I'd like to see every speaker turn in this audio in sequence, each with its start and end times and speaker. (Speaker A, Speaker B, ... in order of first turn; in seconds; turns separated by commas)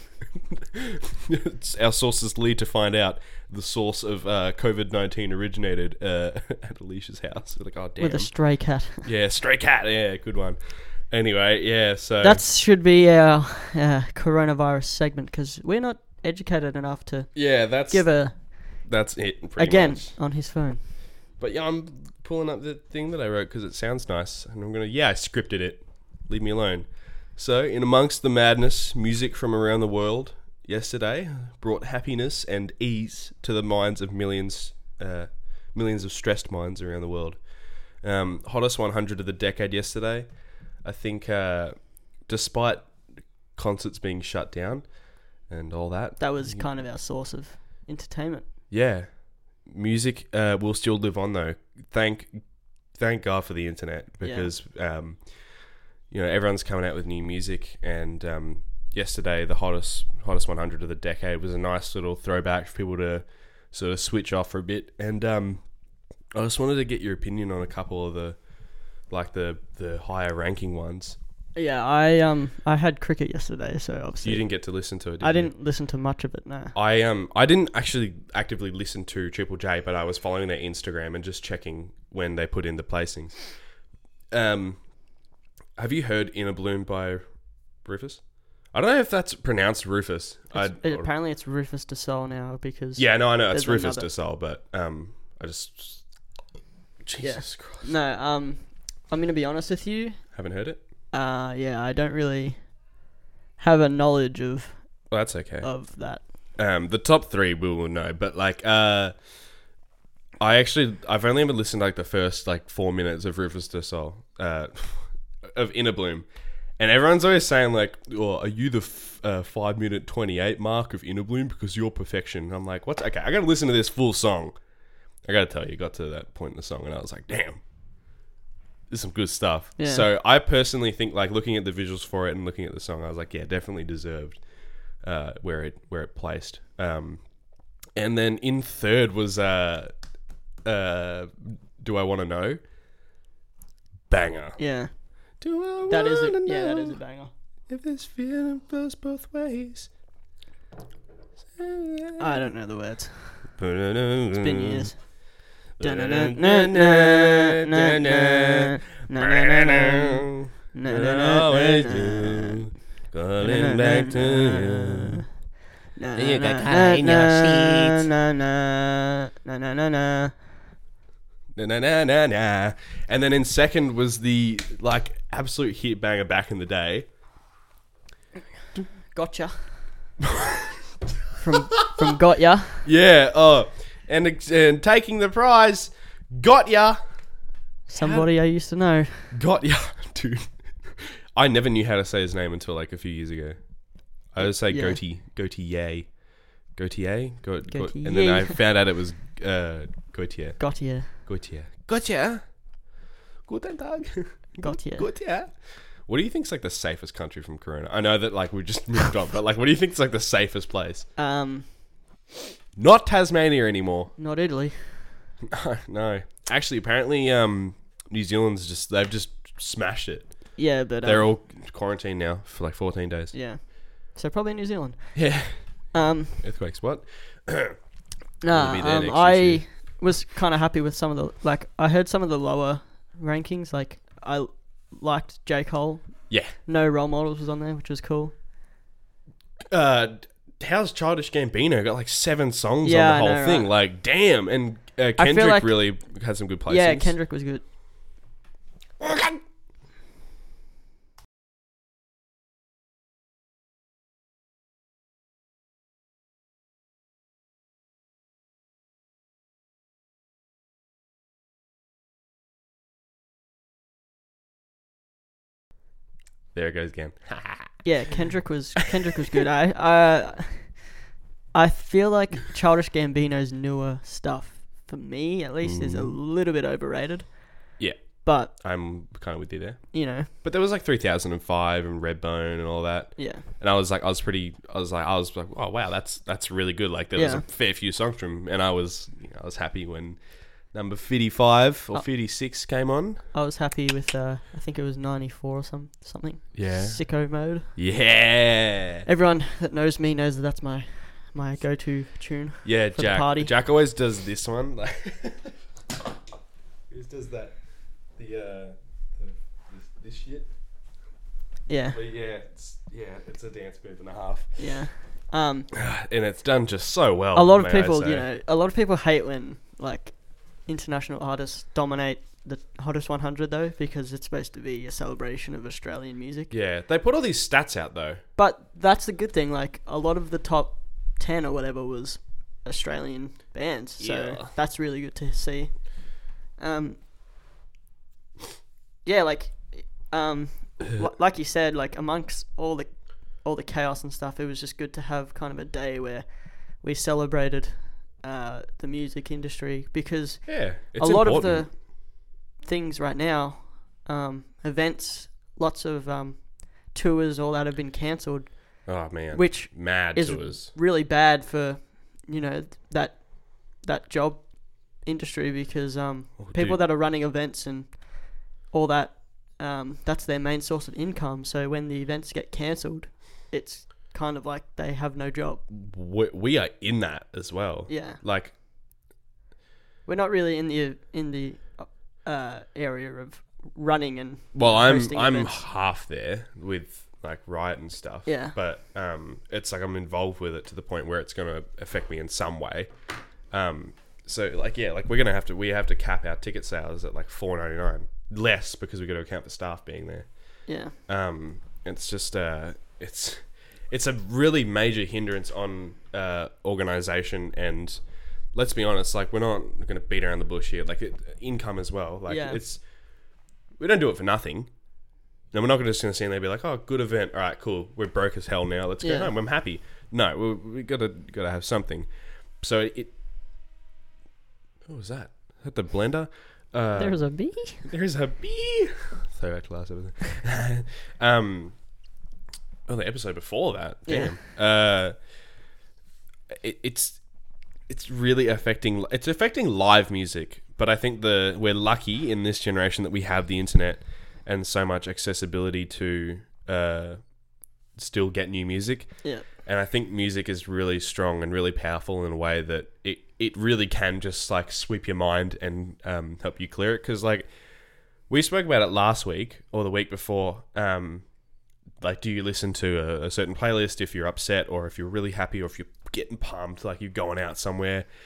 Speaker A: 0.5-8.4, Speaker B: 8.0-9.1, Speaker A: 9.0-12.4, Speaker B: 12.2-18.9, Speaker A: 17.4-20.2, Speaker B: 19.6-20.8, Speaker A: 21.4-43.0, Speaker A: 43.5-46.6, Speaker B: 46.2-48.5, Speaker A: 48.7-55.4, Speaker B: 54.2-54.5, Speaker A: 56.0-65.6, Speaker A: 66.3-68.4, Speaker A: 69.0-71.2, Speaker B: 71.5-74.5, Speaker A: 74.2-75.5, Speaker B: 75.2-76.8, Speaker A: 76.7-83.6, Speaker A: 84.3-85.1, Speaker A: 85.8-91.1, Speaker B: 90.5-94.1, Speaker A: 93.0-96.1, Speaker A: 97.0-98.0, Speaker B: 97.2-100.3, Speaker A: 100.3-100.8, Speaker B: 101.1-102.9, Speaker B: 103.6-105.1, Speaker A: 105.1-105.7, Speaker B: 105.6-106.2, Speaker A: 106.5-109.1, Speaker A: 110.4-116.3, Speaker A: 116.8-124.5, Speaker A: 125.2-127.6, Speaker A: 128.9-137.3, Speaker B: 129.8-130.1, Speaker A: 137.8-139.9, Speaker A: 140.6-142.6, Speaker A: 144.1-144.6, Speaker B: 144.6-144.9, Speaker A: 145.4-147.0, Speaker B: 145.9-147.3, Speaker A: 147.7-149.9, Speaker A: 151.6-152.4, Speaker B: 152.2-153.5, Speaker A: 153.6-154.9, Speaker B: 154.3-162.7, Speaker A: 155.7-165.2, Speaker B: 163.4-165.2, Speaker B: 165.9-170.5, Speaker A: 166.2-168.1, Speaker A: 171.5-177.1, Speaker B: 178.9-179.9, Speaker A: 180.4-180.6, Speaker B: 181.4-182.9, Speaker A: 182.8-187.3, Speaker B: 187.9-189.3, Speaker A: 187.9-188.3, Speaker A: 189.3-193.6, Speaker A: 194.2-202.6, Speaker B: 194.4-195.0, Speaker B: 197.7-198.6, Speaker B: 200.6-201.1, Speaker A: 203.4-211.1, Speaker B: 204.6-205.1, Speaker B: 211.2-211.8, Speaker A: 212.8-214.1, Speaker B: 214.2-215.2, Speaker A: 215.5-223.3, Speaker B: 220.6-221.3, Speaker B: 223.3-226.4, Speaker A: 225.1-227.8, Speaker B: 228.4-238.3, Speaker A: 228.5-229.6, Speaker A: 236.3-236.5, Speaker A: 239.7-247.1, Speaker B: 242.8-243.7, Speaker B: 245.2-245.9, Speaker B: 246.7-247.6, Speaker A: 249.0-249.4, Speaker A: 266.5-267.9, Speaker B: 267.8-270.9, Speaker B: 271.5-277.7, Speaker A: 275.6-276.1, Speaker A: 277.8-290.2, Speaker B: 278.2-278.5, Speaker B: 279.9-280.3, Speaker B: 283.2-283.4, Speaker B: 287.1-287.4, Speaker A: 290.7-293.2, Speaker B: 293.3-297.7, Speaker A: 296.5-299.1, Speaker B: 299.1-303.5, Speaker A: 302.6-305.5, Speaker A: 306.9-310.5, Speaker B: 311.7-312.0, Speaker A: 311.9-314.9, Speaker B: 314.6-315.7, Speaker A: 315.7-318.3, Speaker B: 317.3-326.5, Speaker A: 326.5-328.2, Speaker B: 328.4-337.0, Speaker A: 334.0-334.5, Speaker B: 339.0-375.6, Speaker A: 350.4-351.7, Speaker A: 358.9-360.7, Speaker A: 366.4-366.8, Speaker A: 375.7-378.5, Speaker B: 377.9-378.2, Speaker B: 380.1-385.6, Speaker A: 384.5-392.9, Speaker B: 388.2-388.5, Speaker A: 393.5-400.3, Speaker B: 400.6-400.9, Speaker A: 401.0-408.0, Speaker A: 408.5-414.7, Speaker B: 412.3-412.6, Speaker A: 415.5-422.1, Speaker B: 419.0-419.3, Speaker A: 422.6-423.1, Speaker A: 424.9-431.9, Speaker B: 427.0-427.9, Speaker A: 432.9-435.2, Speaker B: 434.1-434.4, Speaker A: 436.5-437.2, Speaker A: 437.8-447.3, Speaker A: 447.9-457.5, Speaker A: 458.3-461.3, Speaker A: 462.0-468.1